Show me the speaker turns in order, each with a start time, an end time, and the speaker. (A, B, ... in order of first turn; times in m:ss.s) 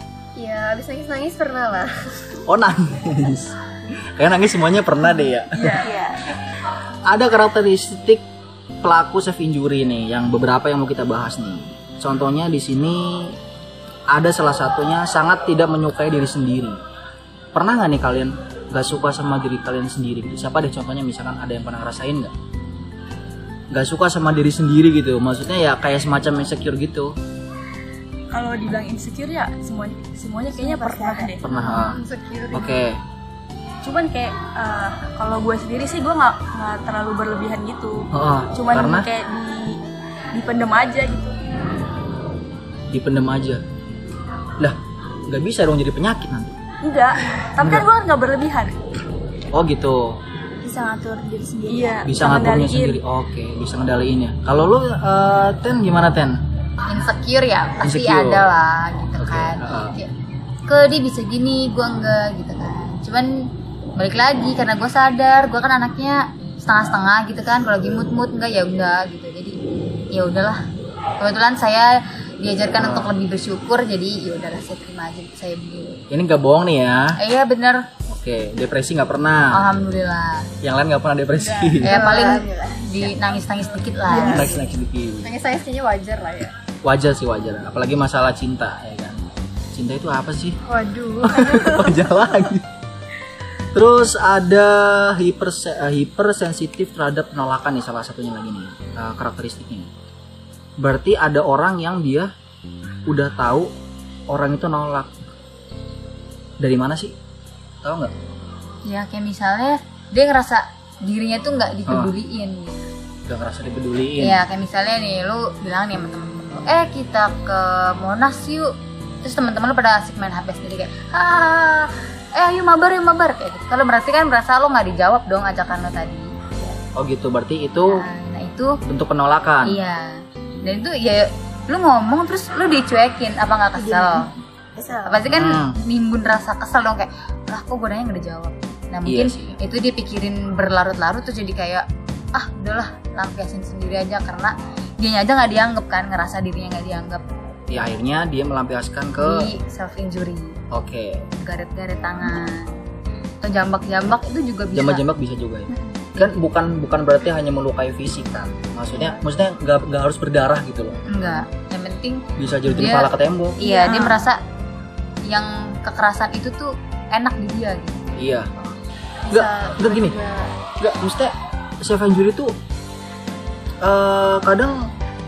0:00.4-0:02.2 A
0:02.5-0:05.9 B
0:05.5-0:06.0 C
0:05.8-0:06.2 D
0:07.1-0:08.2 B
0:08.8-0:13.4 B
0:14.1-0:16.8 B
0:17.6-0:22.3 B
0:23.7-0:27.2 B
0:28.3-0:31.4 C
0:30.5-0:31.9 D
0:31.4-0:32.0 B
0:31.7-0:32.8 A
0:32.5-0:33.0 B
0:33.8-0:39.8 C
0:38.1-0:39.1 B
0:40.3-0:41.4 C
0:42.9-0:43.6 B
0:45.3-0:46.6 B
0:46.8-0:48.8 C
0:47.6-0:47.8 B
0:49.5-0:50.2 B
0:50.6-0:52.1 D
0:51.7-0:53.0 C
0:52.0-0:56.4 B
0:56.9-1:00.1 E
0:57.8-0:58.5 B
0:59.2-1:00.0 B
1:00.7-1:03.3 E
1:04.0-1:09.6 E
1:10.1-1:10.6 E
1:11.2-1:16.0 E
1:12.8-1:13.1 B
1:16.1-1:17.2 B
1:17.2-1:17.9 E
1:18.1-1:19.7 B
1:19.5-1:20.5 E
1:20.6-1:22.0 B
1:21.8-1:22.5 A
1:21.8-1:24.6 E
1:22.0-1:23.1 D
1:23.4-1:24.6 A
1:24.2-1:25.3 B
1:25.2-1:26.5 A
1:26.8-1:30.6 B
1:30.7-1:32.0 A
1:31.2-1:32.6 B
1:33.7-1:39.9 B
1:40.8-1:42.3 B
1:43.1-1:43.7 B
1:44.3-1:45.2 B
1:46.6-1:47.2 B
1:47.8-1:48.1 B
1:48.9-1:52.9 E
1:51.9-1:52.1 B
1:53.3-1:54.4 B
1:54.2-1:58.7 E
1:59.2-2:06.7 E
2:07.0-2:08.0 B
2:07.9-2:08.8 E
2:08.9-2:09.8 B
2:09.6-2:10.1 E
2:10.6-2:14.3 E
2:13.8-2:15.3 D
2:15.1-2:27.2 E
2:15.3-2:15.8 B
2:19.0-2:19.6 B
2:27.7-2:29.4 B
2:29.2-2:30.6 E
2:30.7-2:31.2 B
2:31.4-2:32.7 E
2:33.4-2:35.0 E
2:34.8-2:41.0 B
2:35.8-2:36.4 E
2:41.1-2:44.4 E
2:42.4-2:43.6 B
2:43.6-2:44.3 D
2:45.2-2:48.0 E
2:48.2-2:48.5 B
2:49.2-2:50.6 A
2:49.3-2:50.2 B
2:50.8-2:52.6 B
2:53.8-2:54.9 B